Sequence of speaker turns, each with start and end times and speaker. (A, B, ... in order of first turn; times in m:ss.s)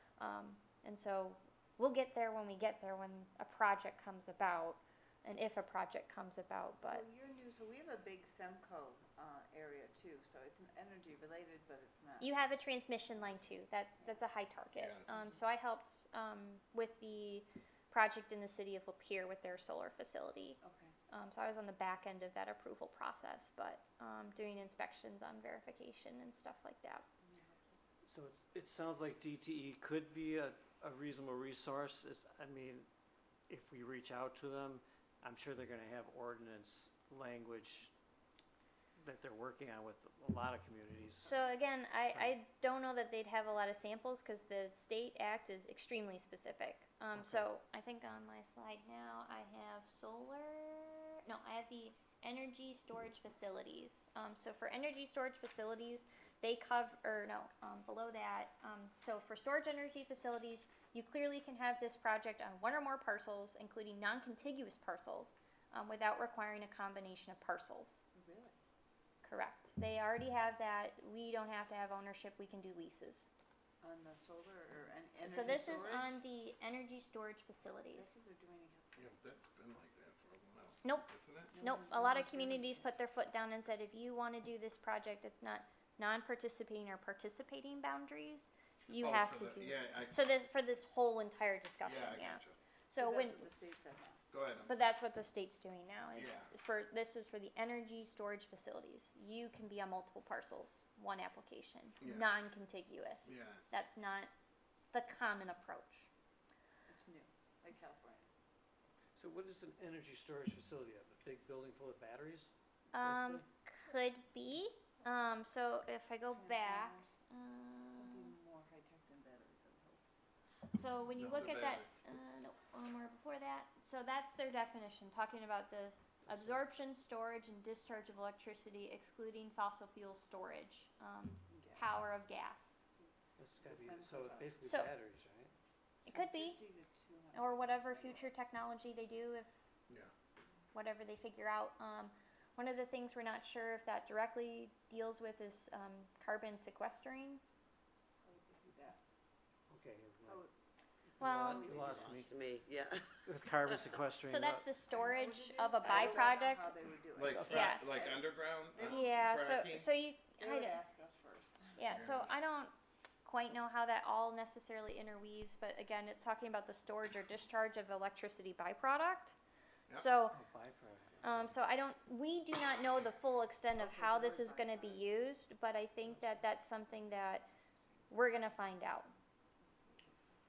0:00.2-0:07.0 A
0:06.9-0:12.3 B
0:12.2-0:27.0 A
0:14.8-0:15.3 C
0:15.1-0:15.4 B
0:20.6-0:21.0 B
0:27.2-0:27.8 B
0:28.0-0:32.9 D
0:33.5-0:37.9 D
0:39.0-0:41.4 D
0:41.2-1:08.0 A
0:42.1-0:42.4 D
0:47.1-0:47.5 D
1:08.1-1:08.6 B
1:09.2-1:13.3 A
1:13.8-1:16.2 B
1:15.2-1:18.1 A
1:17.9-1:19.2 B
1:19.0-1:21.6 C
1:21.5-1:22.8 B
1:21.6-1:33.4 A
1:29.0-1:30.2 C
1:31.8-1:32.6 C
1:33.0-1:34.2 B
1:34.3-1:34.9 C
1:34.7-1:44.3 A
1:36.1-1:36.5 C
1:42.0-1:42.3 C
1:43.2-1:43.6 C
1:44.9-1:46.1 A
1:46.9-1:48.3 B
1:49.1-1:53.4 D
1:52.9-1:58.3 A
1:56.3-1:57.1 B
1:57.9-2:00.0 B
2:00.7-2:12.8 A
2:01.2-2:02.0 C
2:06.3-2:06.6 D
2:11.5-2:12.0 B
2:12.9-2:14.6 B
2:13.4-2:15.5 D
2:14.6-2:14.9 A
2:16.1-2:16.6 A
2:16.1-2:18.2 B
2:17.3-2:19.6 A
2:20.7-2:27.4 A
2:28.2-2:29.0 B
2:29.7-2:30.4 D
2:31.2-2:32.3 D
2:31.2-2:31.7 A
2:31.5-2:32.0 B
2:31.6-2:33.2 E
2:33.2-2:34.7 D
2:34.3-2:36.8 A
2:34.9-2:38.2 B
2:35.8-2:36.3 E
2:37.2-2:39.9 C
2:37.3-2:37.8 D
2:37.4-2:37.9 A
2:38.7-2:39.2 B
2:38.9-2:40.8 A
2:40.4-2:41.8 B
2:41.8-2:42.7 A
2:41.9-2:42.4 C
2:43.2-2:49.3 A
2:49.9-2:50.4 A
2:50.3-2:51.6 D
2:51.2-2:57.5 A
2:53.7-2:55.2 B
2:58.1-2:59.1 A
2:59.8-3:00.2 B